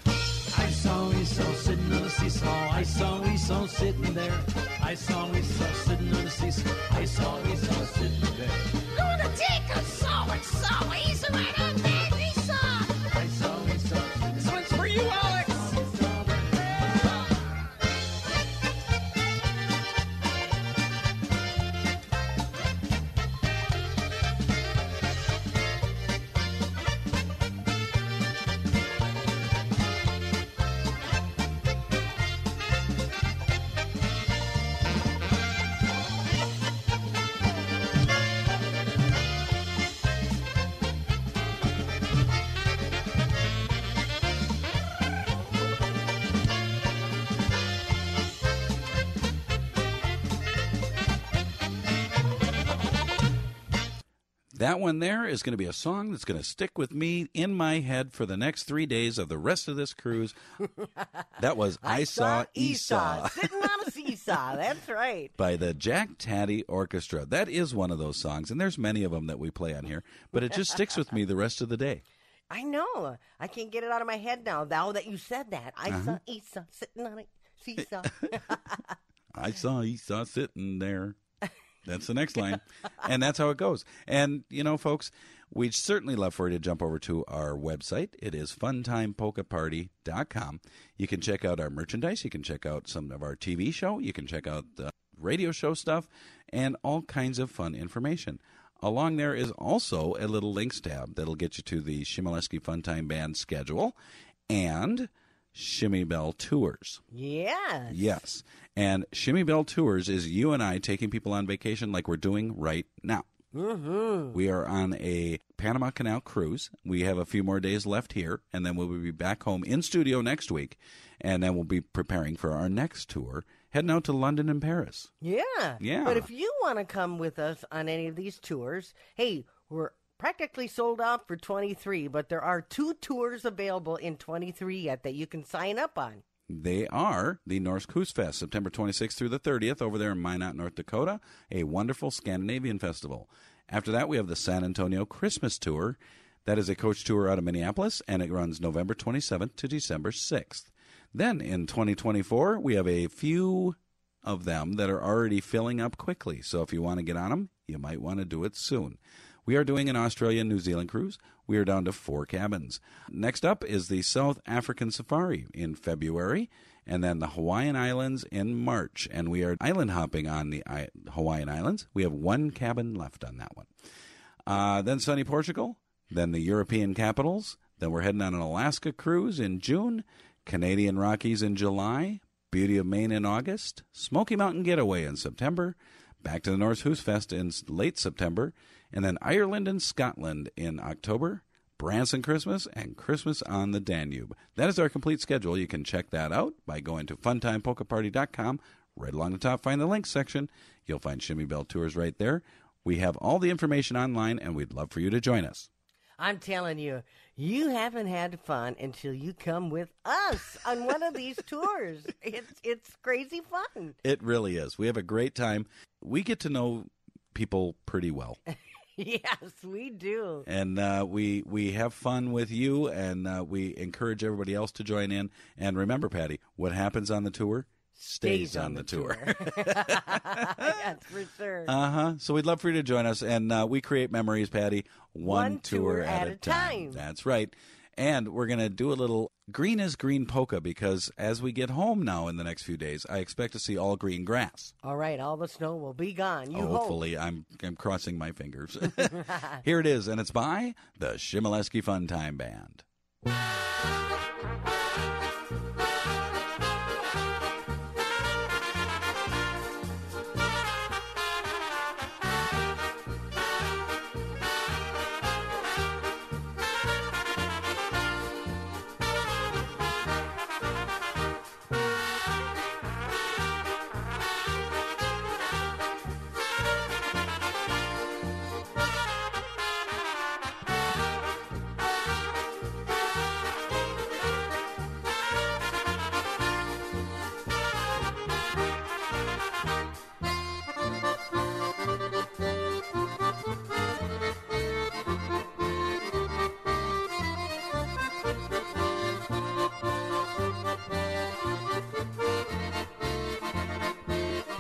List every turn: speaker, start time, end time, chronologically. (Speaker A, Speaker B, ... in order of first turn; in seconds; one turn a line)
Speaker A: 0.5-8.6
Speaker B: 8.9-12.9
Speaker A: 13.1-14.5
Speaker B: 14.4-15.7
Speaker C: 54.5-60.4
Speaker D: 60.8-61.2
Speaker C: 61.4-63.7
Speaker D: 61.8-65.3
Speaker C: 65.4-72.0
Speaker D: 72.5-78.9
Speaker C: 75.9-76.2
Speaker C: 79.3-81.2
Speaker C: 81.8-104.0
Speaker C: 104.5-107.0
Speaker D: 107.1-108.2
Speaker C: 107.9-113.3
Speaker D: 113.5-114.4
Speaker C: 114.3-125.1
Speaker D: 125.2-136.2
Speaker C: 125.8-126.3
Speaker C: 136.5-173.7
Speaker C: 174.5-205.7
Speaker D: 206.2-214.0
Speaker C: 214.0-218.4
Speaker D: 219.0-220.4
Speaker C: 220.5-230.2
Speaker D: 228.1-231.7
Speaker C: 231.7-244.7
Speaker D: 235.2-237.0
Speaker D: 244.8-247.0
Speaker C: 246.5-252.8
Speaker D: 249.2-249.5